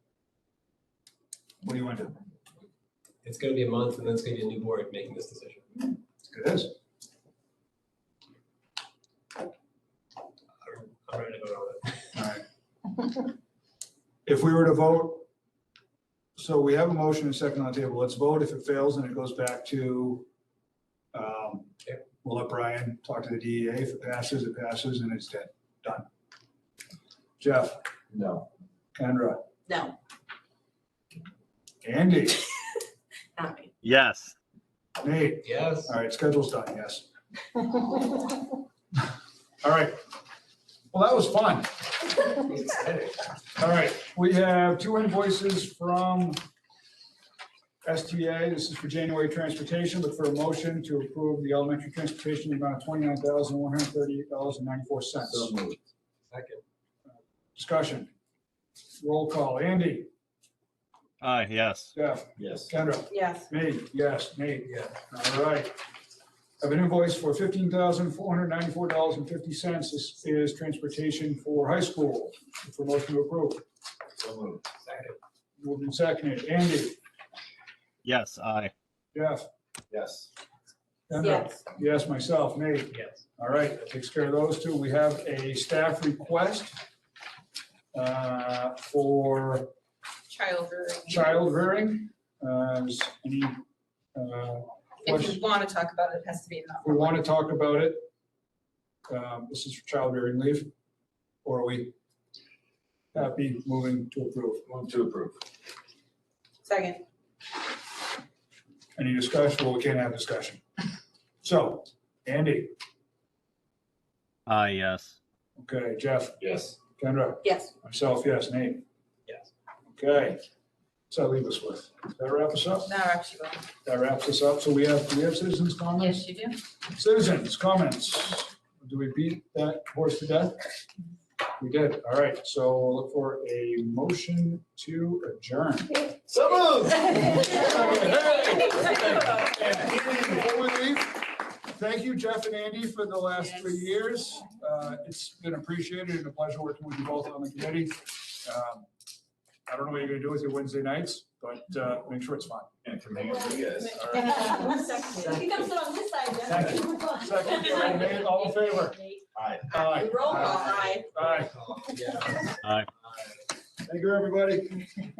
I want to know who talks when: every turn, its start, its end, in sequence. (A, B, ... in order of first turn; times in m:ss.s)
0:01.6-0:02.2 A
0:03.2-0:05.6 B
0:06.3-0:06.7 A
0:10.6-0:11.9 B
0:12.1-0:12.4 A
0:14.2-0:15.2 A
0:16.4-0:20.2 A
0:21.1-0:26.1 A
0:27.4-0:27.8 A
0:28.1-0:28.4 C
0:28.9-0:29.4 A
0:29.7-0:29.9 D
0:31.8-0:32.5 A
0:33.4-0:33.7 D
0:33.8-0:34.3 E
0:35.0-0:37.0 A
0:35.4-0:35.9 B
0:39.6-0:40.0 A
0:40.9-0:41.7 A
0:42.7-0:43.1 B
0:43.6-0:46.4 A
0:47.8-0:55.5 A
0:55.3-0:55.8 C
0:56.3-0:56.6 B
0:57.6-0:58.1 A
0:59.0-1:00.1 A
1:01.2-1:01.9 E
1:01.9-1:05.8 A
1:02.4-1:02.7 C
1:03.1-1:03.5 D
1:06.6-1:13.6 A
1:14.2-1:14.6 C
1:14.8-1:15.1 B
1:15.6-1:17.0 A
1:18.0-1:18.7 E
1:19.1-1:19.4 A
1:19.9-1:20.3 C
1:21.1-1:26.8 A
1:21.2-1:21.6 D
1:27.9-1:29.7 A
1:30.3-1:31.5 D
1:31.1-1:33.6 A
1:34.1-1:35.4 A
1:35.0-1:37.1 D
1:36.8-1:38.0 A
1:39.1-1:40.7 A
1:41.4-1:41.9 A
1:43.1-1:44.6 A
1:44.7-1:45.4 C
1:46.6-1:47.0 D
1:49.0-1:50.6 A
1:51.4-1:52.7 A
1:54.5-1:55.2 E
1:55.6-1:56.4 A
1:56.4-1:56.8 C
1:57.0-1:58.8 A
1:57.4-1:57.7 D
1:59.9-2:00.4 A
2:01.1-2:02.9 A
2:02.8-2:03.7 D
2:03.8-2:06.2 A
2:06.0-2:06.6 D
2:06.9-2:10.6 A
2:11.6-2:16.1 A
2:16.3-2:20.0 C
2:17.3-2:28.9 A
2:17.3-2:19.7 D
2:29.7-2:32.7 A
2:32.8-2:34.2 C
2:33.2-2:38.4 F
2:34.1-2:35.6 D
2:36.4-2:39.0 A
2:37.5-2:37.9 D
2:39.3-2:39.7 C
2:39.7-2:41.5 A
2:39.7-2:41.3 D
2:40.2-2:40.8 B
2:41.4-2:42.6 B
2:43.8-2:44.8 A